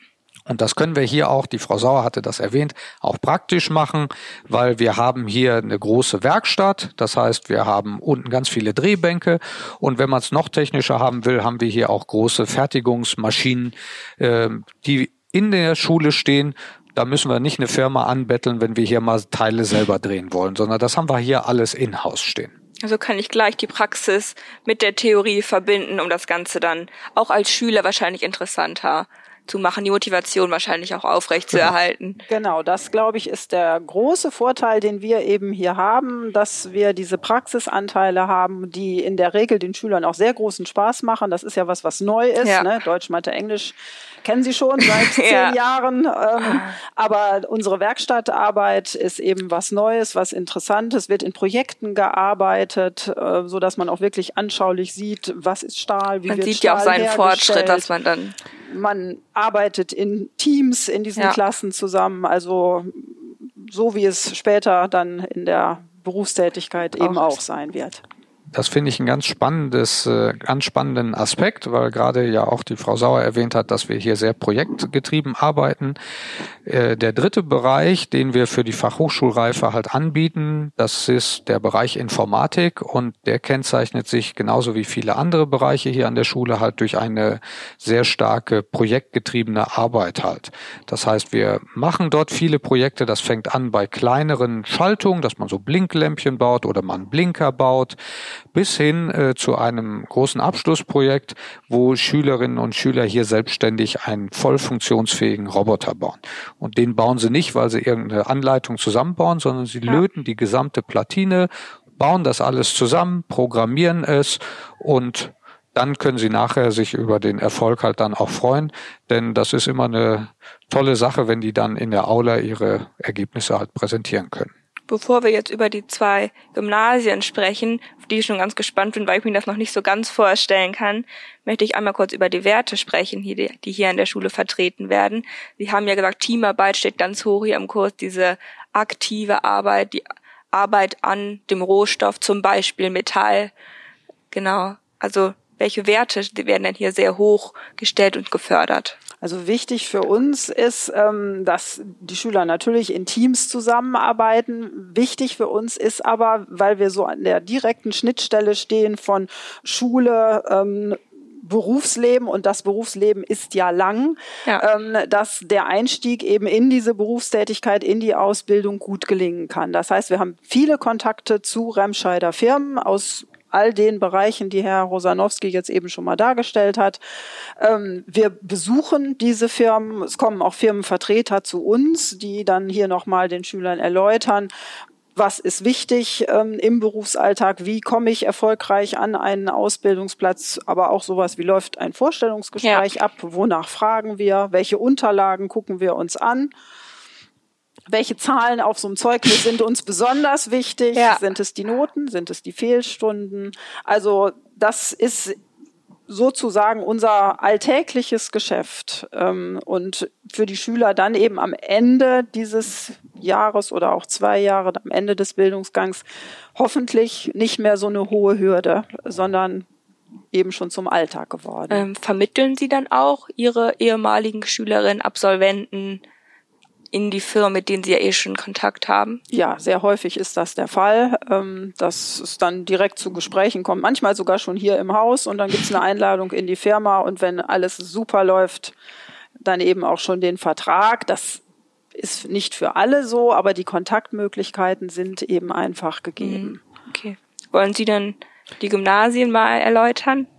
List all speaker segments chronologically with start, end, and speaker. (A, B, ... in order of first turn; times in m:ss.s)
0:00.5-0:22.5 A
0:22.8-0:32.2 B
0:32.3-0:57.9 C
0:42.4-0:42.7 B
0:45.0-0:45.5 B
0:46.4-0:46.7 B
0:56.3-0:58.4 B
0:58.6-1:08.0 C
1:07.0-1:07.4 B
1:08.5-1:16.0 A
1:16.6-1:37.9 A
1:38.5-2:04.5 A
2:04.9-2:23.5 B
2:24.3-2:29.0 B
2:29.2-2:57.0 C
2:57.6-3:04.5 C
3:05.1-3:16.5 C
3:17.9-3:25.4 C
3:20.9-3:21.2 B
3:26.1-3:39.7 C
3:40.3-3:41.8 C
3:41.7-3:46.0 B
3:46.9-3:49.2 B
3:49.3-3:58.7 C
3:59.4-4:01.4 C
4:01.9-4:06.6 C
4:06.2-4:10.3 B